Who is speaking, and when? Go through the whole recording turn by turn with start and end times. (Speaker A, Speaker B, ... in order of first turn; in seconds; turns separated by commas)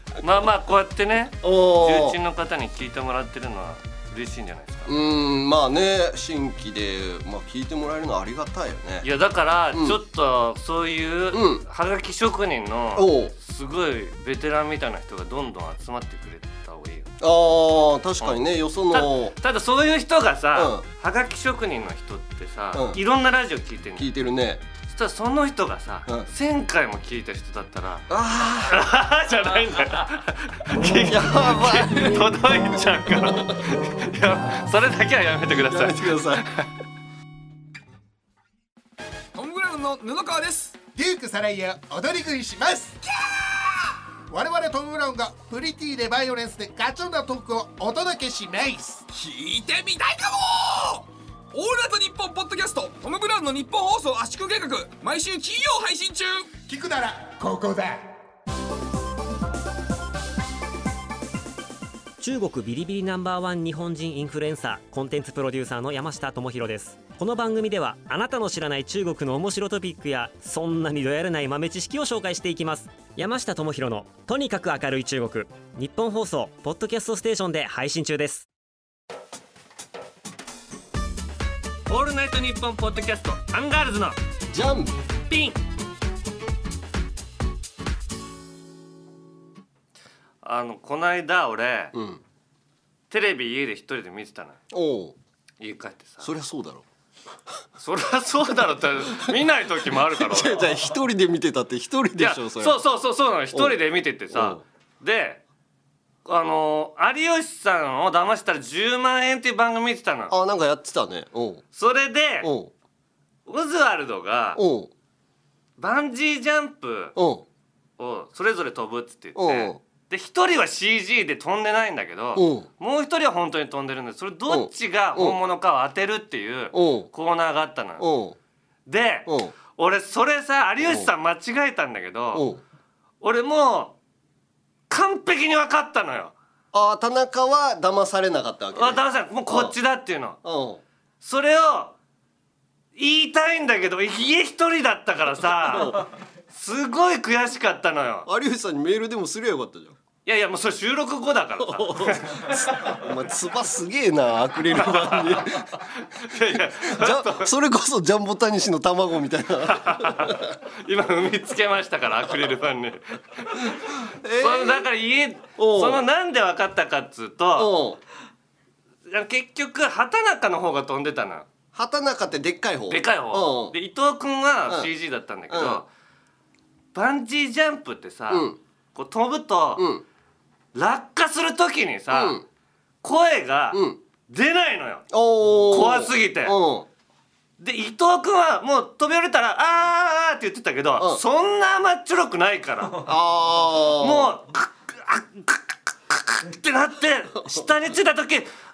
Speaker A: 0.2-4.9, Speaker B: 1.4-2.2, Speaker B: 4.9-9.1, Speaker A: 9.0-17.1, Speaker B: 9.7-10.0, Speaker B: 11.3-11.6, Speaker B: 13.0-13.3, Speaker B: 17.2-19.3, Speaker A: 18.9-24.1, Speaker B: 20.5-20.9, Speaker B: 22.7-23.0, Speaker B: 24.0-24.6, Speaker A: 24.9-28.1, Speaker B: 28.1-28.9, Speaker A: 28.7-36.7, Speaker B: 30.8-32.4, Speaker B: 35.6-36.5, Speaker C: 39.3-40.8, Speaker D: 41.0-43.0, Speaker D: 44.3-49.0, Speaker C: 49.1-56.5, Speaker D: 56.7-58.1, Speaker E: 62.2-78.5, Speaker A: 81.9-84.2, Speaker B: 84.5-84.9, Speaker A: 85.3-85.6, Speaker A: 90.4-91.9, Speaker B: 91.9-92.2, Speaker A: 93.1-94.6, Speaker B: 94.7-95.2, Speaker A: 95.6-96.3, Speaker B: 96.2-96.8, Speaker A: 97.8-100.7, Speaker B: 99.9-102.8, Speaker A: 102.2-105.4, Speaker B: 103.5-104.6, Speaker A: 106.2-110.3, Speaker B: 110.3-111.6, Speaker A: 111.7-112.5, Speaker B: 112.4-112.7, Speaker A: 113.5-114.6, Speaker B: 114.6-114.9, Speaker A: 115.8-117.2, Speaker B: 117.2-117.5, Speaker A: 118.0-128.1, Speaker B: 119.4-119.8, Speaker B: 122.3-122.7, Speaker B: 124.5-125.4, Speaker B: 126.7-127.1, Speaker B: 128.0-128.4, Speaker A: 128.9-132.5, Speaker B: 129.3-129.6, Speaker B: 130.8-131.1, Speaker B: 132.3-132.6, Speaker A: 133.2-134.0, Speaker A: 134.9-136.3, Speaker B: 136.7-139.7, Speaker A: 138.7-140.4, Speaker B: 140.4-140.8, Speaker A: 141.2-141.9, Speaker A: 143.0-148.3, Speaker B: 145.7-146.1, Speaker B: 148.3-150.0, Speaker A: 150.2-153.0, Speaker B: 151.6-155.8, Speaker A: 154.8-157.5, Speaker B: 156.5-160.5, Speaker A: 159.7-167.7, Speaker B: 164.2-164.9, Speaker B: 165.6-166.0, Speaker B: 167.6-168.0, Speaker A: 169.1-171.5, Speaker B: 171.7-173.7, Speaker A: 172.9-175.9, Speaker B: 175.5-175.8, Speaker A: 176.9-179.9, Speaker B: 178.3-178.6, Speaker B: 179.8-180.0, Speaker A: 180.7-182.4, Speaker B: 182.1-182.4, Speaker A: 183.0-185.1, Speaker B: 183.7-184.0, Speaker B: 185.1-186.9, Speaker A: 185.7-186.6, Speaker A: 187.6-193.1, Speaker B: 193.0-194.3, Speaker A: 194.0-198.5